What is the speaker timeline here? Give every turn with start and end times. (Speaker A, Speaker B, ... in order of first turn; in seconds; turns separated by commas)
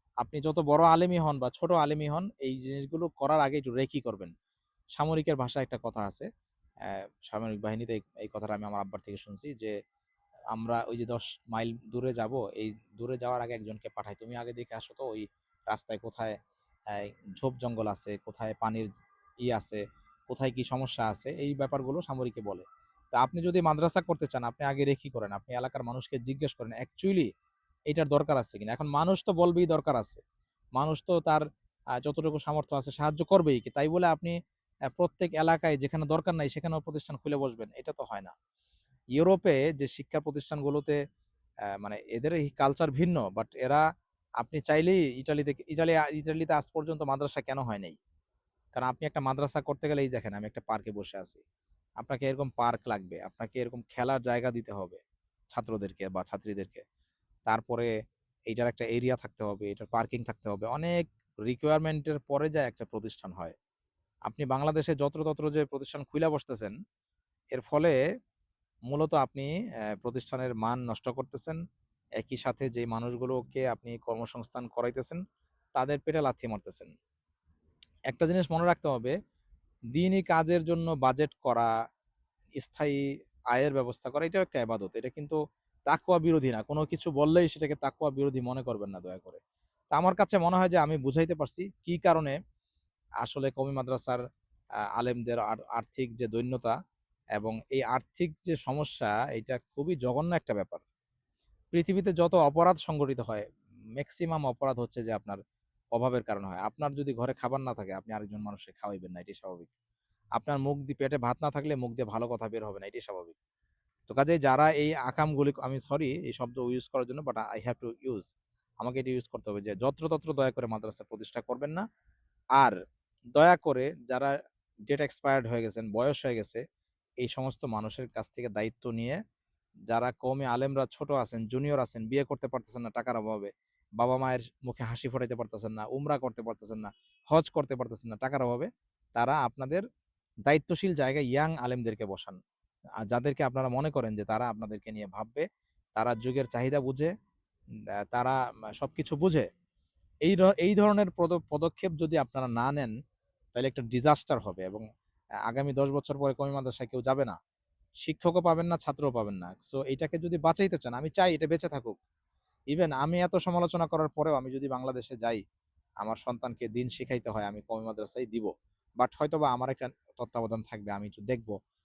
Speaker A: 0.2-4.3, Speaker A: 5.0-6.3, Speaker A: 6.9-9.8, Speaker A: 10.5-16.4, Speaker A: 16.9-18.9, Speaker A: 19.4-27.3, Speaker A: 27.9-30.2, Speaker A: 30.8-31.5, Speaker A: 32.0-34.4, Speaker A: 34.9-38.3, Speaker A: 39.2-41.0, Speaker A: 41.8-43.8, Speaker A: 44.4-48.0, Speaker A: 48.8-51.4, Speaker A: 52.0-56.8, Speaker A: 57.5-57.9, Speaker A: 58.5-63.5, Speaker A: 64.3-66.8, Speaker A: 67.5-68.0, Speaker A: 68.9-71.6, Speaker A: 72.2-75.2, Speaker A: 75.8-76.9, Speaker A: 78.1-79.2, Speaker A: 80.0-81.7, Speaker A: 82.6-83.0, Speaker A: 83.5-85.4, Speaker A: 85.9-89.4, Speaker A: 89.9-92.4, Speaker A: 93.2-94.2, Speaker A: 95.0-96.7, Speaker A: 97.4-100.8, Speaker A: 101.7-103.5, Speaker A: 104.0-105.4, Speaker A: 106.0-109.7, Speaker A: 110.4-113.4, Speaker A: 114.1-118.3, Speaker A: 118.8-121.8, Speaker A: 123.4-124.3, Speaker A: 124.9-126.6, Speaker A: 127.2-129.2, Speaker A: 129.9-139.8, Speaker A: 140.5-142.4, Speaker A: 143.1-147.1, Speaker A: 148.1-149.5, Speaker A: 150.3-152.9, Speaker A: 153.6-154.8, Speaker A: 155.5-157.4, Speaker A: 158.0-162.0, Speaker A: 162.7-165.4, Speaker A: 166.0-171.6